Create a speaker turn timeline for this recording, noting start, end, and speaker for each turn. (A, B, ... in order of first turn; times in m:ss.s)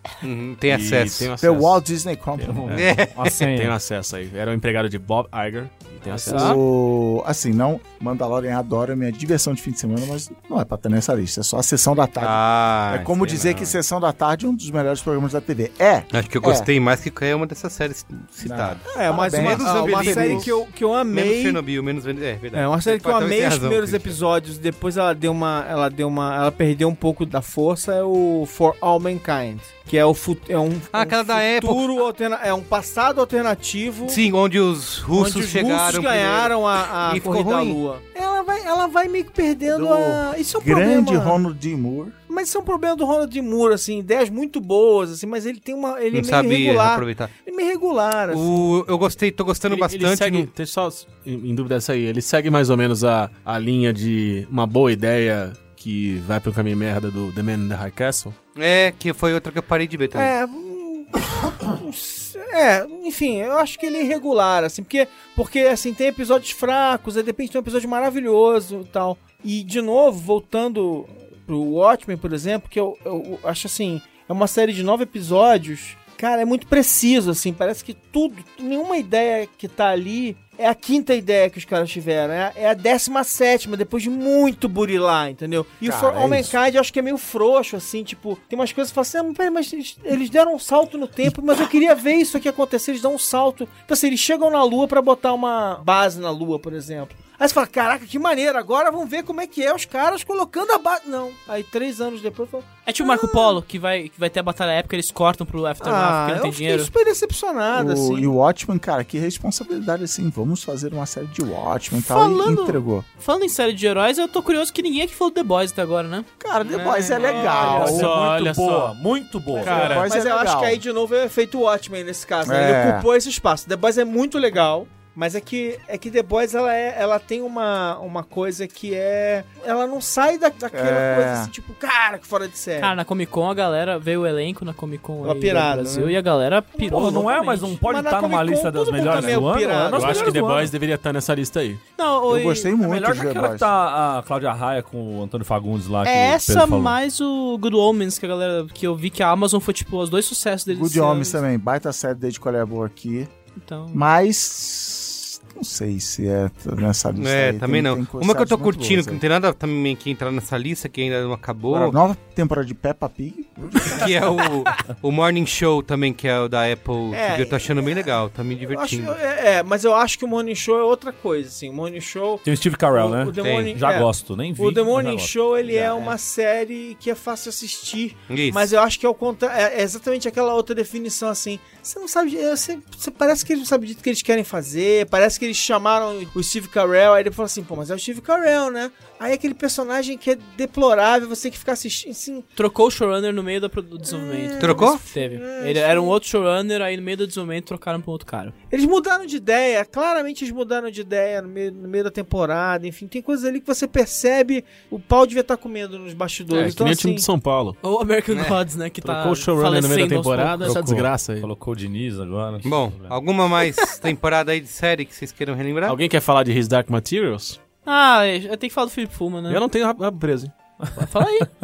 0:00.2-0:01.3 A
0:00.7-0:01.8 B
0:01.4-0:03.0 C
0:02.4-0:03.8 D
0:02.7-0:03.4 A
0:03.5-0:06.6 B
0:06.2-0:16.7 C
0:06.3-0:06.6 E
0:12.2-0:13.8 A
0:16.1-0:24.2 A
0:18.4-0:20.5 C
0:18.9-0:21.6 F
0:22.5-0:34.2 F
0:30.9-0:32.0 A
0:34.0-0:37.8 A
0:35.1-0:41.4 F
0:39.7-0:42.2 C
0:42.3-0:48.7 F
0:46.1-0:47.3 A
0:48.3-0:50.5 A
0:49.7-0:58.4 B
0:58.6-1:00.3 A
1:00.1-1:43.6 F
1:25.8-1:26.5 C
1:42.8-1:46.9 E
1:45.8-1:48.3 F
1:47.7-1:53.0 C
1:52.0-1:56.3 E
1:56.4-1:58.1 C
1:57.0-1:57.7 E
1:57.2-1:57.5 F
1:57.4-2:00.0 D
1:57.5-1:59.0 B
1:59.5-2:00.1 B
1:59.6-2:00.8 C
1:59.6-2:12.9 F
2:02.4-2:03.1 C
2:10.7-2:11.5 C
2:12.8-2:17.8 E
2:15.2-2:16.2 F
2:16.7-2:20.4 F
2:16.9-2:20.7 D
2:19.0-2:21.8 B
2:22.0-2:22.7 E
2:22.3-2:23.7 C
2:22.8-2:27.0 D
2:26.0-2:31.4 E
2:30.7-2:33.3 C
2:33.6-2:34.0 E
2:33.9-2:39.2 C
2:37.2-2:42.0 A
2:41.7-2:44.1 C
2:43.9-2:49.2 A
2:47.1-2:48.1 F
2:48.6-3:12.4 F
2:52.4-2:55.8 D
2:53.4-2:53.7 A
2:58.3-2:58.7 A
3:12.6-3:18.5 E
3:14.1-3:16.2 F
3:14.6-3:15.0 A
3:18.7-3:27.3 F
3:26.5-3:27.8 B
3:27.8-3:30.6 E
3:28.3-3:28.6 A
3:29.0-3:31.5 B
3:30.6-3:33.2 D
3:32.6-3:36.0 A
3:35.8-3:37.6 B
3:37.8-3:39.6 E
3:39.5-3:40.5 B
3:41.0-3:41.5 E